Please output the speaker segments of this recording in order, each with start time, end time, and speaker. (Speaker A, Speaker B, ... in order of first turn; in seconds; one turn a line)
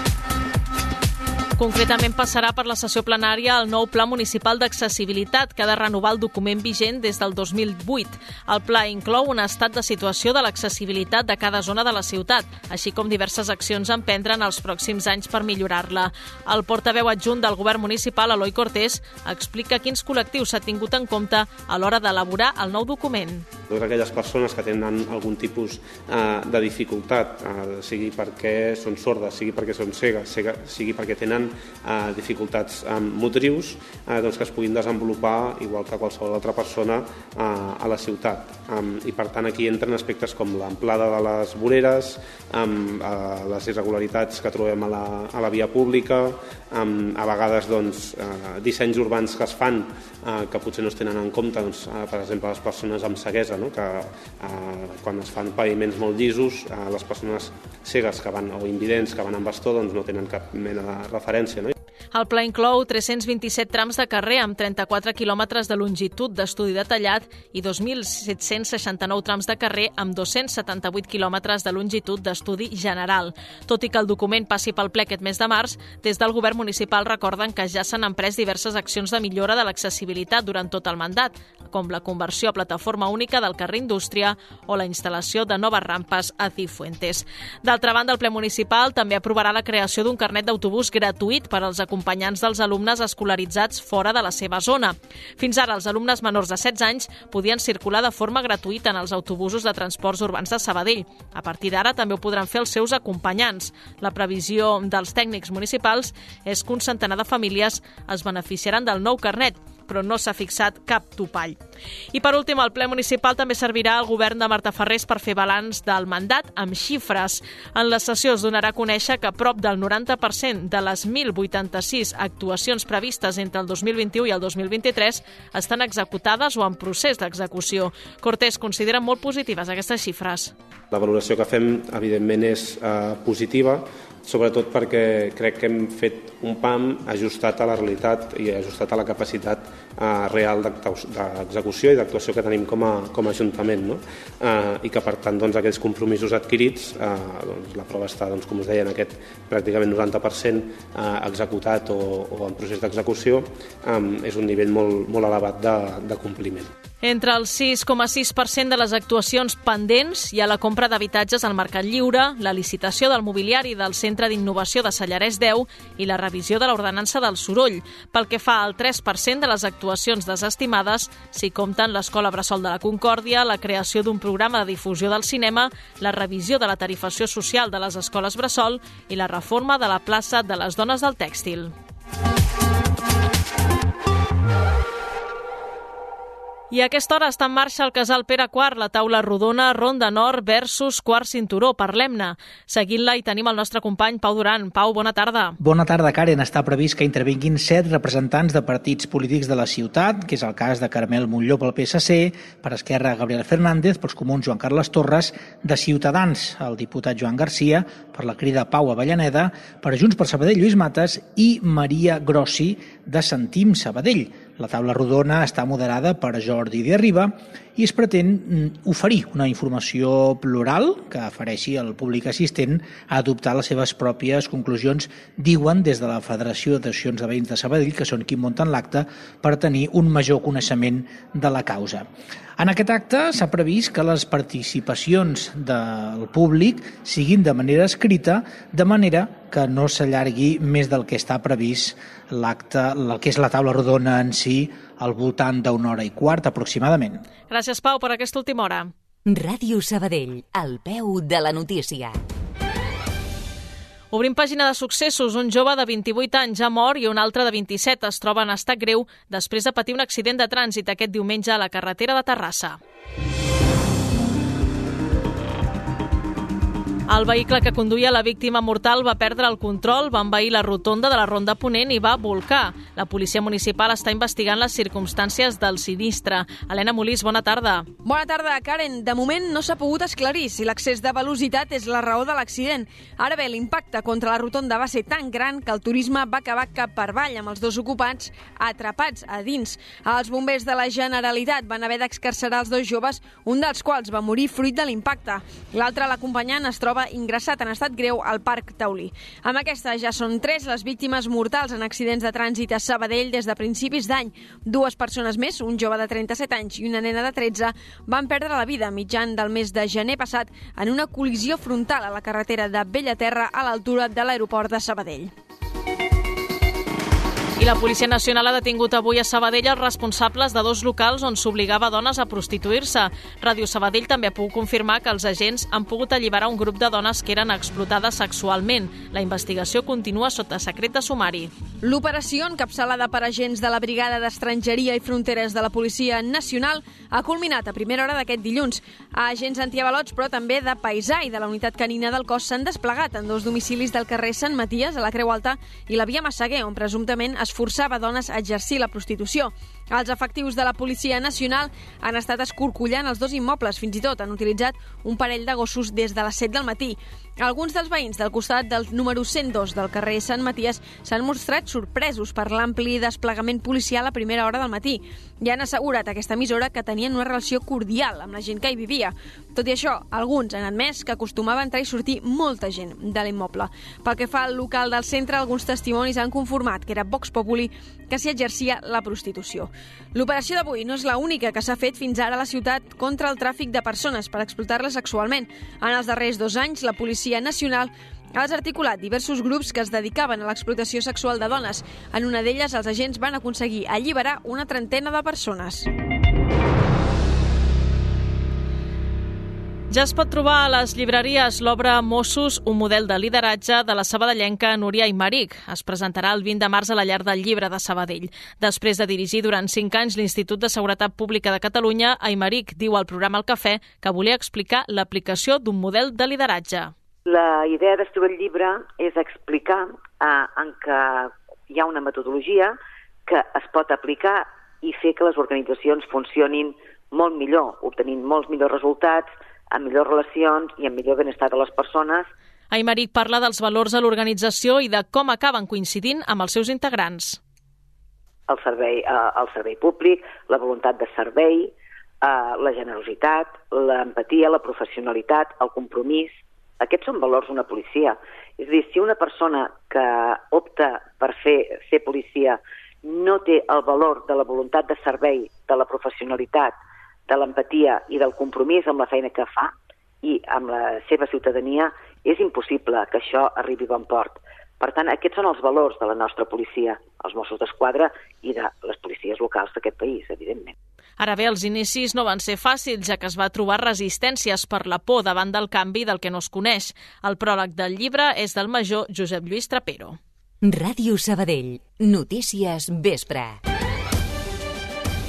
Speaker A: 1.6-23.5
Speaker B: 23.7-61.7
Speaker A: 62.1-111.6
Speaker A: 112.1-130.5
Speaker B: 130.9-156.7
Speaker A: 157.0-181.7
Speaker A: 186.7-195.6
Speaker C: 195.6-247.3
Speaker A: 247.5-248.9
Speaker D: 249.3-252.2
Speaker A: 254.1-262.8
Speaker A: 267.1-277.9
Speaker E: 278.1-315.3
Speaker A: 317.6-331.5
Speaker E: 331.8-395.9
Speaker A: 399.9-416.9
Speaker F: 417.3-432.3
Speaker A: 432.7-437.4
Speaker F: 438.5-456.8
Speaker F: 457.3-470.7
Speaker A: 471.2-480.2
Speaker D: 480.6-483.6